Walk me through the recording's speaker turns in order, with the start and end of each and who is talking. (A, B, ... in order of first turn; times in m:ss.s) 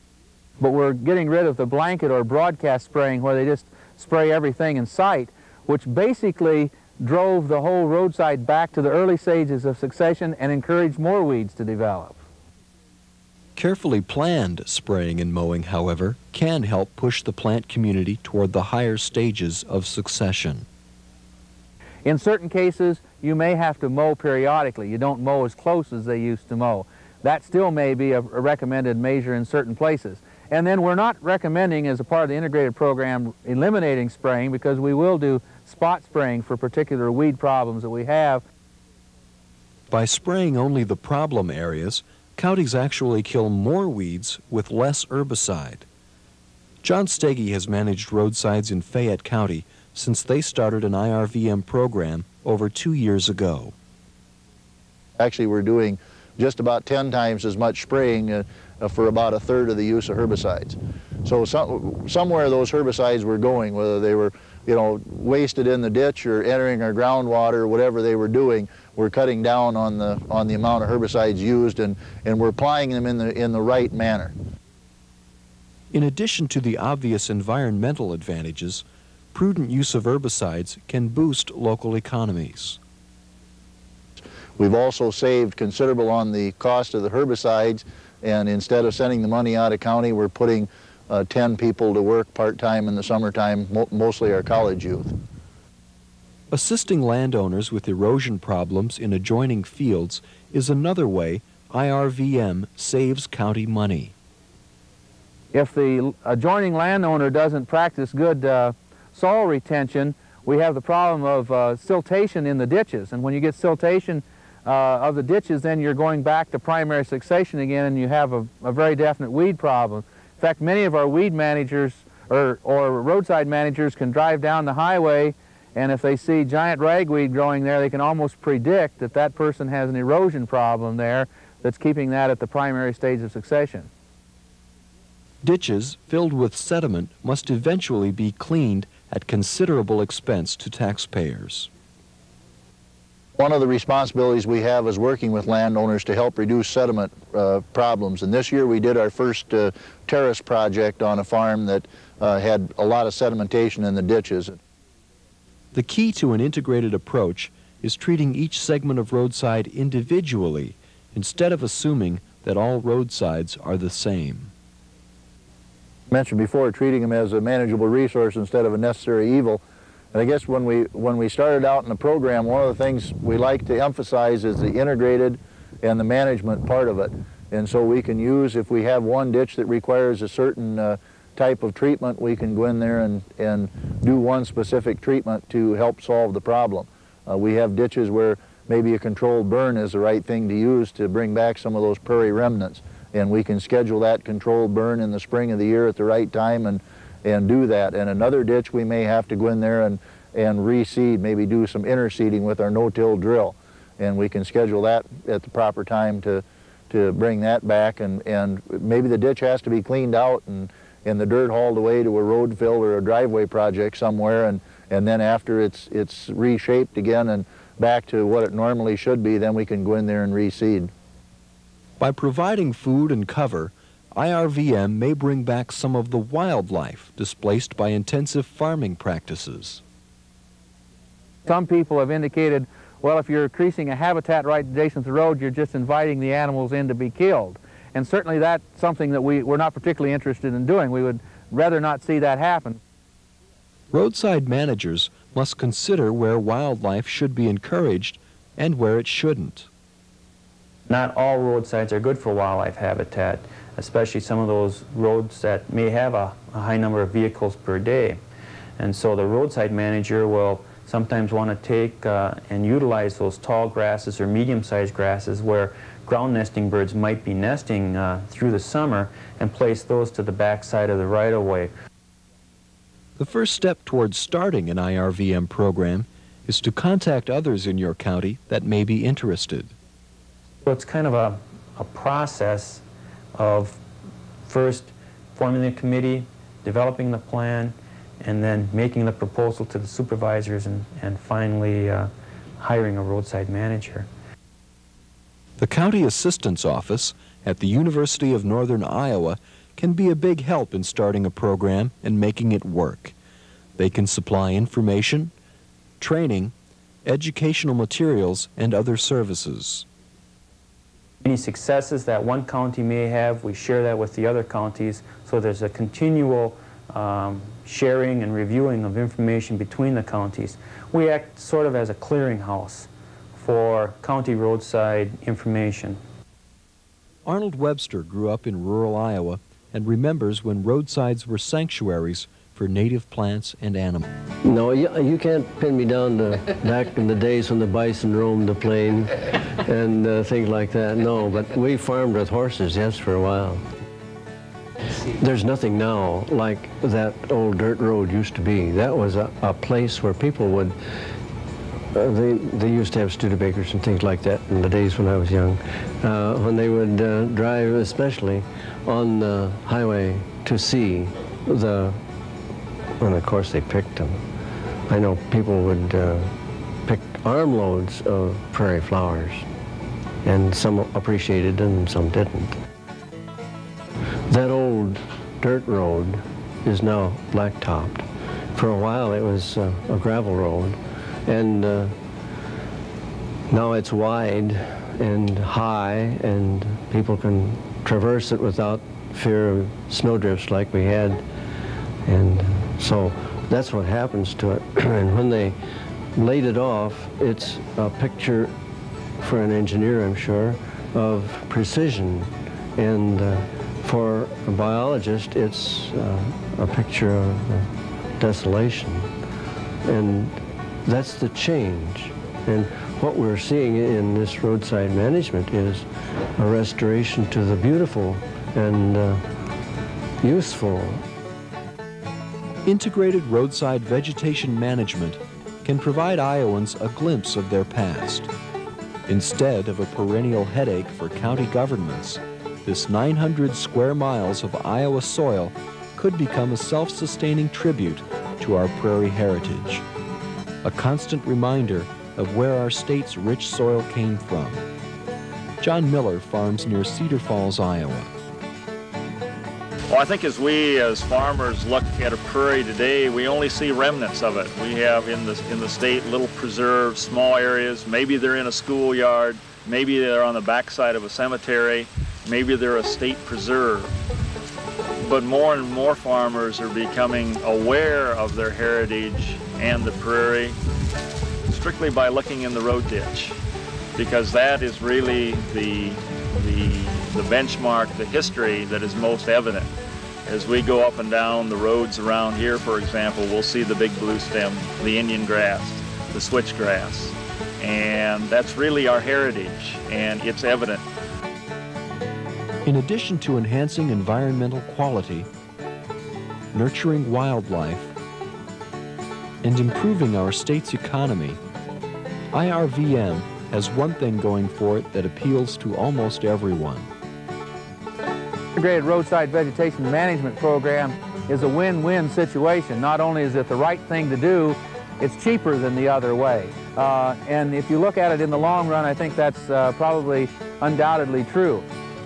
0:00.6-0:12.2 A
0:13.6-0:20.6 B
0:22.0-0:38.4 A
0:39.9-0:45.8 B
0:46.8-0:53.7 B
0:55.2-1:14.3 C
1:15.9-1:22.8 B
1:24.6-1:35.1 C
1:36.5-1:44.1 B
1:45.5-2:13.9 A
2:15.4-2:21.7 B
2:23.4-2:34.6 C
2:35.7-2:44.5 B
2:46.1-2:49.6 C
2:50.1-3:40.9 C
3:42.0-3:49.8 B
3:51.4-4:02.8 A
4:03.9-4:09.7 B
4:10.9-4:18.2 D
4:18.8-4:31.7 D
4:33.2-4:39.7 B
4:40.6-4:42.8 D
4:43.4-4:43.8 D
4:44.4-4:54.1 D
4:55.6-5:03.1 B
5:03.8-5:05.3 B
5:06.0-5:06.5 B
5:07.1-5:09.8 B
5:11.2-5:26.0 D
5:27.2-5:34.1 B
5:34.4-5:43.6 E
5:45.1-5:50.8 E
5:51.9-6:02.0 E
6:03.0-6:04.2 E
6:04.9-6:09.5 E
6:10.2-6:12.6 E
6:14.3-6:21.9 E
6:23.5-6:31.2 E
6:32.0-6:35.6 E
6:36.1-6:38.5 E
6:39.2-6:49.1 E
6:49.8-6:59.2 E
7:00.2-7:01.0 E
7:02.6-7:08.3 B
7:09.1-7:19.8 B
7:20.6-7:24.6 B
7:25.6-7:28.1 B
7:29.9-7:43.9 F
7:45.0-7:50.6 F
7:51.5-7:53.4 F
7:53.9-7:59.7 F
8:00.2-8:10.8 F
8:12.6-8:15.3 B
8:16.5-8:17.9 B
8:19.4-8:21.4 B
8:22.3-8:26.9 B
8:28.6-8:41.6 A